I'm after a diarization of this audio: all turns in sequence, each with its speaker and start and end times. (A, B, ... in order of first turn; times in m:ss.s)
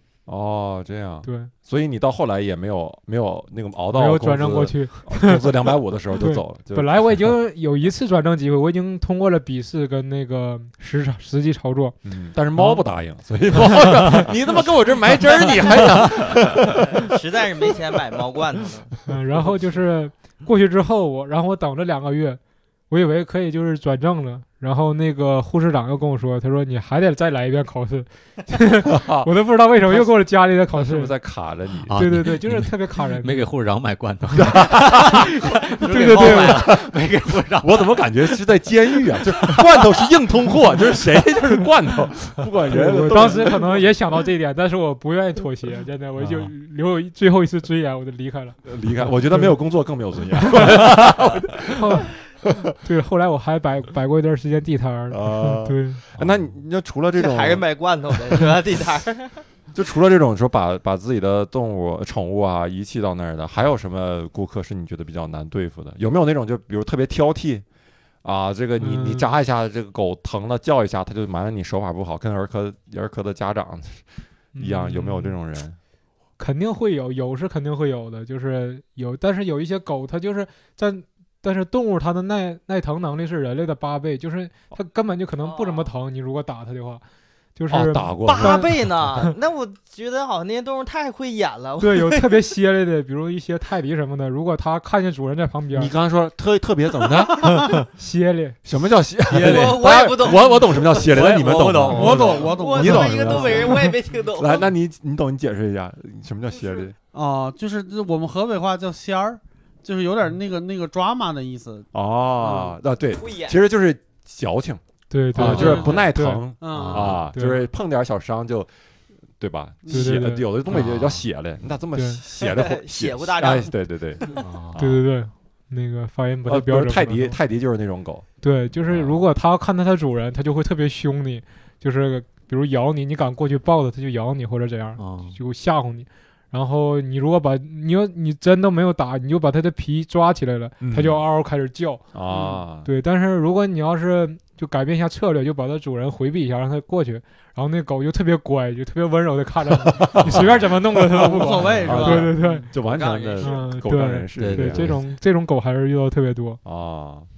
0:00.2-0:07.2 A
0:01.2-0:01.5 B
0:03.9-0:12.0 B
0:12.0-0:17.0 A
0:13.7-0:14.1 B
0:16.9-0:18.9 C
0:19.1-0:31.1 B
0:28.9-0:29.3 A
0:29.8-0:32.0 A
0:31.9-0:38.4 D
0:32.0-0:33.4 B
0:34.4-0:43.8 A
0:35.8-0:36.6 B
0:38.9-0:40.0 D
0:42.7-0:48.6 B
0:46.2-0:46.5 D
0:48.6-0:51.9 A
0:49.3-0:49.5 B
0:50.5-0:50.8 B
0:51.7-0:56.0 B
0:55.1-0:57.6 A
0:56.2-0:56.5 D
0:57.1-0:59.4 C
0:59.7-1:07.6 A
1:08.2-1:15.8 A
1:08.8-1:09.3 B
1:14.5-1:15.4 B
1:16.4-1:27.0 B
1:25.4-1:25.9 C
1:27.6-1:29.3 B
1:27.7-1:28.7 A
1:28.2-1:32.4 C
1:31.8-1:35.9 B
1:35.7-1:37.7 A
1:37.5-1:37.8 D
1:38.0-1:38.6 B
1:38.6-1:47.0 A
1:39.3-1:40.0 D
1:39.3-1:41.5 C
1:41.0-1:42.5 D
1:41.9-1:43.9 E
1:42.1-1:44.7 C
1:47.1-1:51.9 E
1:51.9-1:54.8 A
1:52.4-1:52.7 E
1:53.1-1:53.6 C
1:55.1-1:56.5 B
1:55.3-1:58.7 A
1:55.4-1:56.1 E
1:55.4-1:55.8 D
1:56.6-1:57.2 E
1:56.7-1:57.2 D
1:57.2-1:57.6 B
1:59.4-2:05.0 A
1:59.9-2:00.2 E
1:59.9-2:00.5 B
2:00.7-2:01.2 D
2:01.9-2:02.2 B
2:02.4-2:04.4 C
2:04.4-2:04.8 D
2:04.8-2:07.4 B
2:06.4-2:08.3 A
2:08.4-2:22.0 B
2:08.8-2:09.2 A
2:15.0-2:15.4 D
2:20.8-2:21.2 A
2:22.1-2:22.9 A
2:22.3-2:22.6 E
2:22.8-2:32.7 B
2:29.7-2:30.7 A
2:30.9-2:32.4 E
2:31.8-2:34.9 A
2:32.8-2:33.6 C
2:33.4-2:36.6 B
2:34.4-2:35.1 D
2:36.6-2:37.3 A